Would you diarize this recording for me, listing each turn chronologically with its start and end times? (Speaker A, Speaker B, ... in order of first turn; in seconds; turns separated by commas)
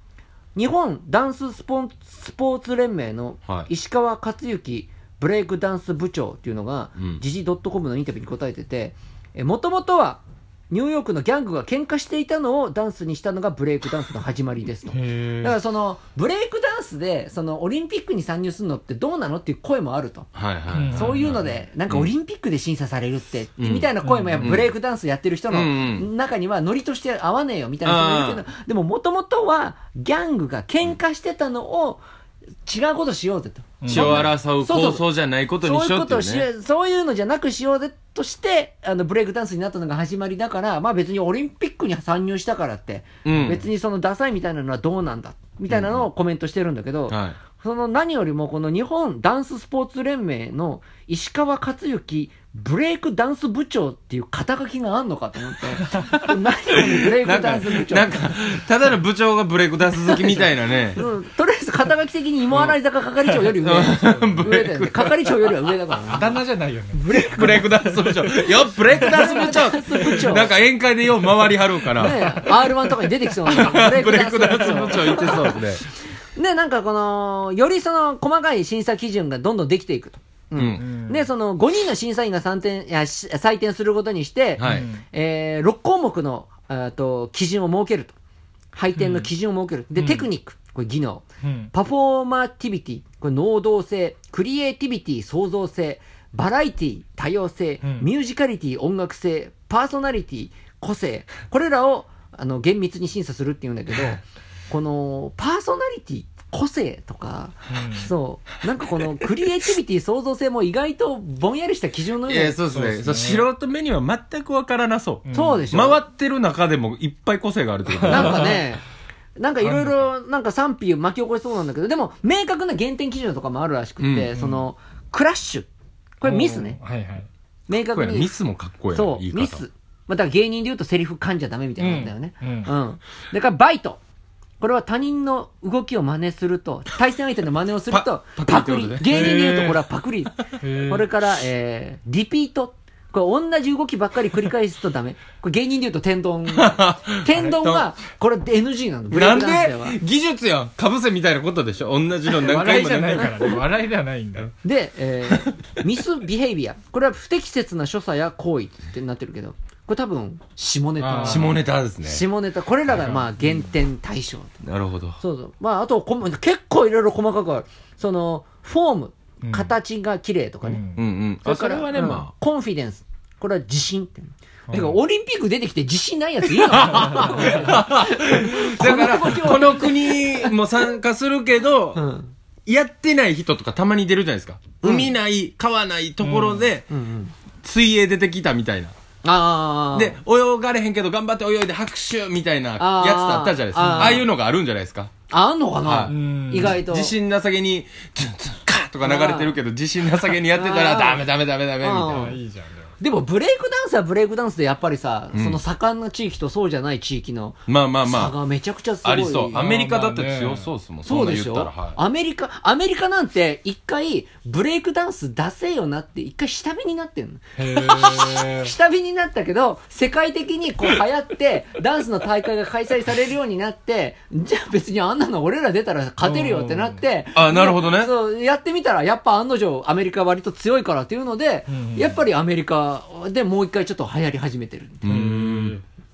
Speaker A: 0.5-20.3, Speaker B: 7.0-7.2, Speaker C: 14.9-15.6, Speaker B: 20.3-22.1, Speaker C: 20.7-21.5, Speaker A: 20.9-32.0, Speaker B: 23.6-24.7, Speaker C: 24.0-24.6, Speaker B: 25.5-26.1, Speaker B: 27.8-28.4, Speaker A: 32.6-35.0, Speaker C: 33.8-34.3, Speaker B: 33.9-36.5, Speaker A: 35.6-58.3, Speaker B: 43.2-43.6, Speaker B: 45.7-46.0, Speaker B: 47.1-47.4, Speaker B: 55.9-56.2, Speaker B: 56.7-61.0, Speaker A: 60.9-66.4, Speaker B: 62.5-62.8, Speaker B: 63.5-65.7, Speaker C: 64.0-64.4, Speaker C: 66.1-67.2, Speaker A: 66.9-70.5, Speaker B: 67.1-75.8, Speaker C: 68.9-70.3, Speaker A: 72.0-75.8, Speaker A: 76.3-88.2, Speaker B: 80.5-80.8, Speaker C: 80.8-81.3, Speaker B: 84.6-84.9, Speaker C: 84.6-85.0, Speaker A: 88.7-112.5, Speaker C: 89.0-89.3, Speaker C: 89.9-90.3, Speaker C: 91.4-91.7, Speaker C: 97.8-98.1, Speaker C: 107.7-108.1, Speaker B: 112.3-118.6, Speaker C: 112.7-113.5, Speaker C: 115.2-115.7, Speaker A: 115.3-116.0, Speaker C: 117.9-118.5, Speaker A: 118.1-118.8, Speaker A: 119.4-125.7, Speaker C: 119.6-120.0, Speaker B: 124.0-124.3, Speaker C: 124.3-124.7, Speaker A: 126.2-126.8, Speaker C: 126.2-127.3, Speaker A: 127.7-128.3, Speaker B: 127.7-129.6, Speaker A: 128.9-134.0, Speaker C: 131.8-132.7, Speaker A: 134.6-150.0, Speaker B: 137.9-139.3, Speaker C: 139.1-139.8, Speaker C: 140.6-141.1, Speaker B: 146.5-147.8, Speaker B: 149.1-153.6, Speaker C: 152.3-154.5, Speaker A: 154.6-164.6, Speaker B: 155.3-155.6, Speaker C: 161.0-161.5, Speaker B: 161.2-162.2, Speaker C: 162.9-163.7, Speaker B: 164.6-165.2, Speaker A: 165.2-170.8, Speaker C: 169.4-169.7, Speaker C: 170.6-171.0, Speaker B: 170.9-172.3, Speaker A: 171.4-180.6, Speaker C: 174.7-175.0, Speaker B: 176.7-182.0, Speaker A: 181.9-182.3, Speaker B: 182.7-186.9, Speaker A: 184.8-185.1, Speaker C: 186.2-186.7, Speaker A: 186.9-187.3, Speaker B: 187.6-188.9, Speaker A: 189.2-190.2, Speaker B: 189.9-195.1, Speaker A: 192.8-194.3, Speaker C: 193.8-194.2, Speaker A: 195.3-197.1, Speaker B: 195.8-202.3, Speaker C: 196.1-196.8, Speaker A: 199.0-199.6, Speaker A: 200.5-201.3, Speaker A: 201.8-202.4, Speaker C: 202.1-202.9, Speaker A: 203.0-209.6, Speaker B: 205.3-205.6, Speaker B: 207.7-208.3, Speaker B: 209.0-212.0, Speaker C: 209.5-210.7, Speaker A: 211.0-235.1, Speaker C: 217.6-218.7, Speaker C: 226.2-227.0, Speaker B: 227.3-228.1, Speaker C: 231.7-232.2, Speaker B: 235.0-235.8, Speaker C: 235.0-235.8